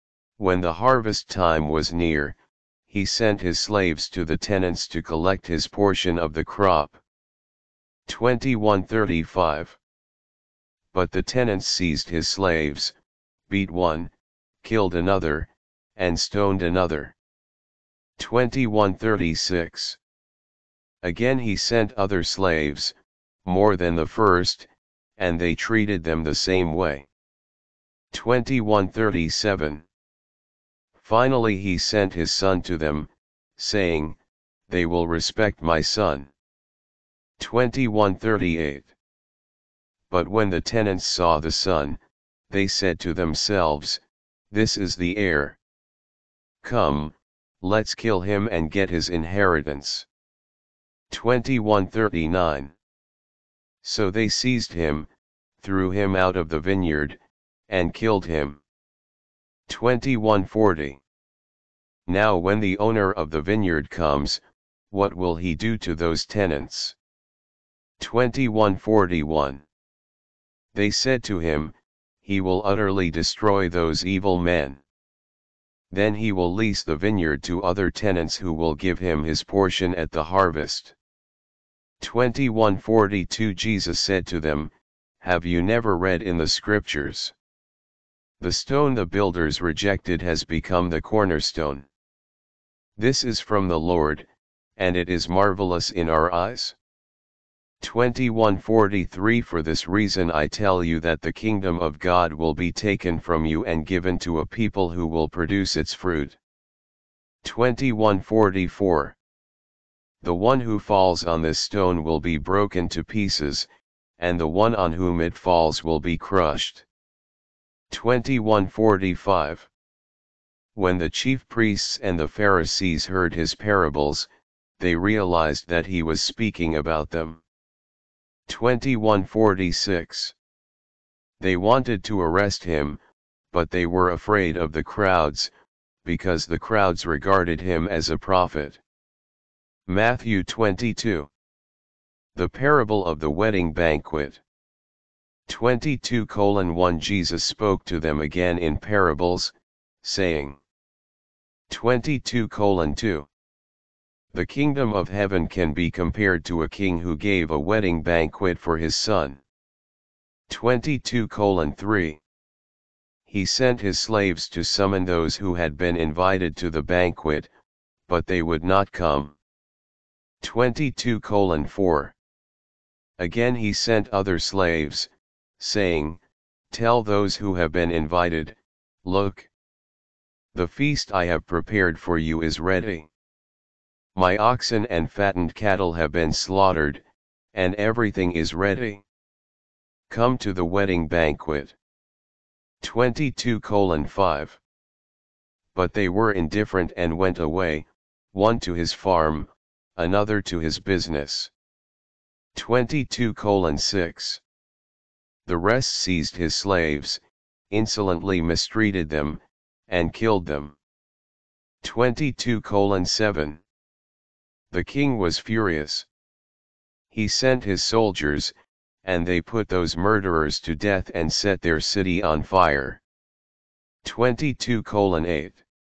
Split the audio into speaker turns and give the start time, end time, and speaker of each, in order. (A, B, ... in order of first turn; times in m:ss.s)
0:00.4-0:07.0 A
0:08.1-0:09.8 A
0:10.9-0:13.0 A
0:13.5-0:17.2 A
0:18.2-0:20.0 A
0:21.0-0:27.1 A
0:28.1-0:29.9 A
0:31.0-0:34.2 A
0:34.7-0:36.3 A
0:37.4-0:38.9 A
0:40.1-0:45.6 A
0:46.6-0:50.1 A
0:51.1-0:52.7 A
0:53.8-0:55.1 A
0:55.6-0:58.6 A
0:59.7-1:01.0 A
1:02.1-1:07.0 A
1:08.0-1:09.6 A
1:10.7-1:14.8 A
1:15.9-1:21.0 A
1:22.0-1:27.3 A
1:28.4-1:31.9 A
1:33.0-1:36.8 A
1:37.8-1:46.4 A
1:47.4-1:49.2 A
1:50.2-1:56.8 A
1:57.9-1:59.7 A
2:00.8-2:07.4 A
2:08.5-2:10.4 A
2:11.4-2:13.0 A
2:13.5-2:15.5 A
2:16.0-2:18.8 A
2:19.9-2:21.3 A
2:22.4-2:24.4 A
2:25.5-2:30.6 A
2:31.7-2:33.3 A
2:34.3-2:39.4 A
2:40.5-2:42.2 A
2:43.3-2:47.5 A
2:48.1-2:49.4 A
2:50.4-2:52.2 A
2:53.2-2:59.5 A
3:00.5-3:03.1 A
3:04.2-3:07.0 A
3:07.5-3:09.0 A
3:10.1-3:11.8 A
3:12.8-3:14.6 A
3:15.7-3:21.5 A
3:22.6-3:24.4 A
3:25.5-3:30.8 A
3:31.8-3:33.6 A
3:34.7-3:36.1 A
3:37.1-3:43.0 A
3:44.0-3:45.6 A